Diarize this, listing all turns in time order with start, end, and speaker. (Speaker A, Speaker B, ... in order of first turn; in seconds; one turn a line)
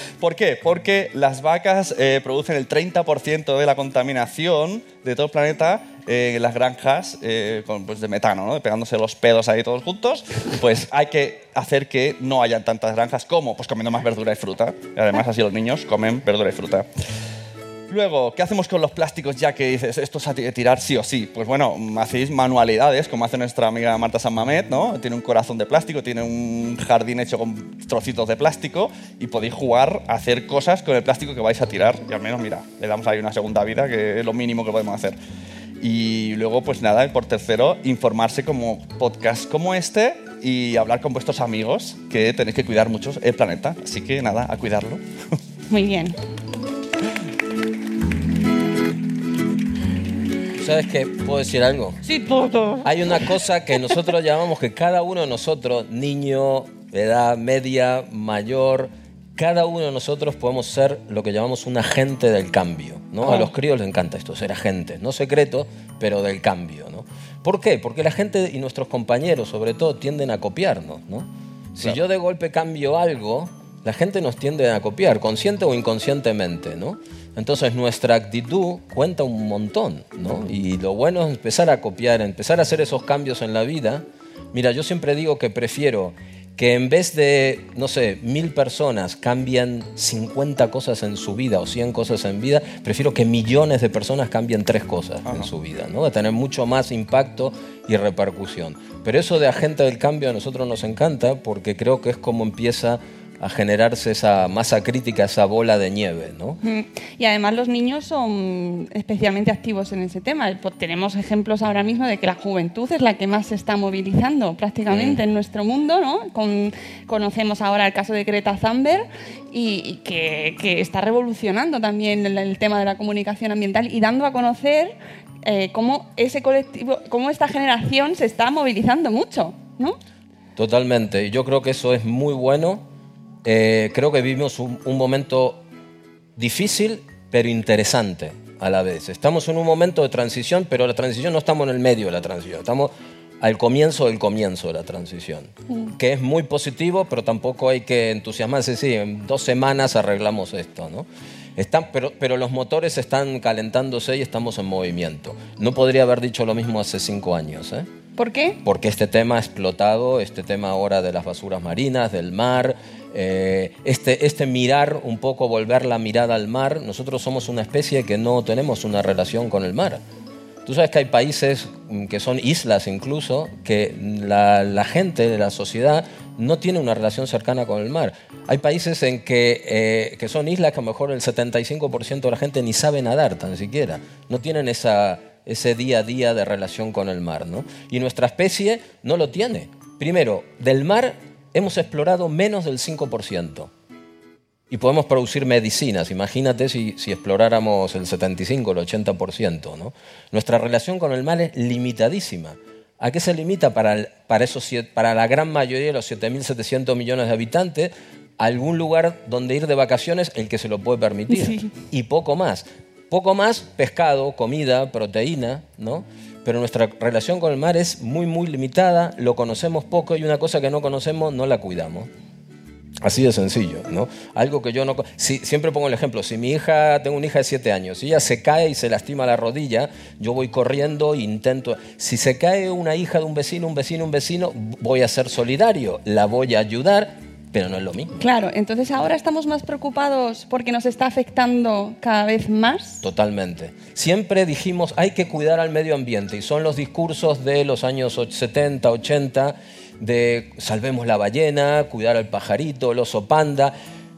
Speaker A: 0.2-16.9
Speaker A: 17.9-35.2
Speaker A: 35.8-45.0
Speaker B: 45.7-46.1
Speaker C: 50.5-52.0
Speaker B: 52.0-53.3
Speaker C: 52.8-106.6
Speaker B: 63.2-63.5
Speaker A: 95.2-95.5
Speaker B: 106.6-130.0
Speaker C: 114.9-115.2
Speaker C: 130.6-132.8
Speaker C: 133.4-135.6
Speaker C: 136.3-157.9
Speaker B: 158.2-158.6
Speaker C: 158.6-170.0
Speaker C: 170.6-193.7
Speaker C: 194.7-222.1
Speaker B: 211.3-211.7
Speaker C: 223.0-238.2
Speaker B: 238.2-243.0
Speaker C: 243.0-253.7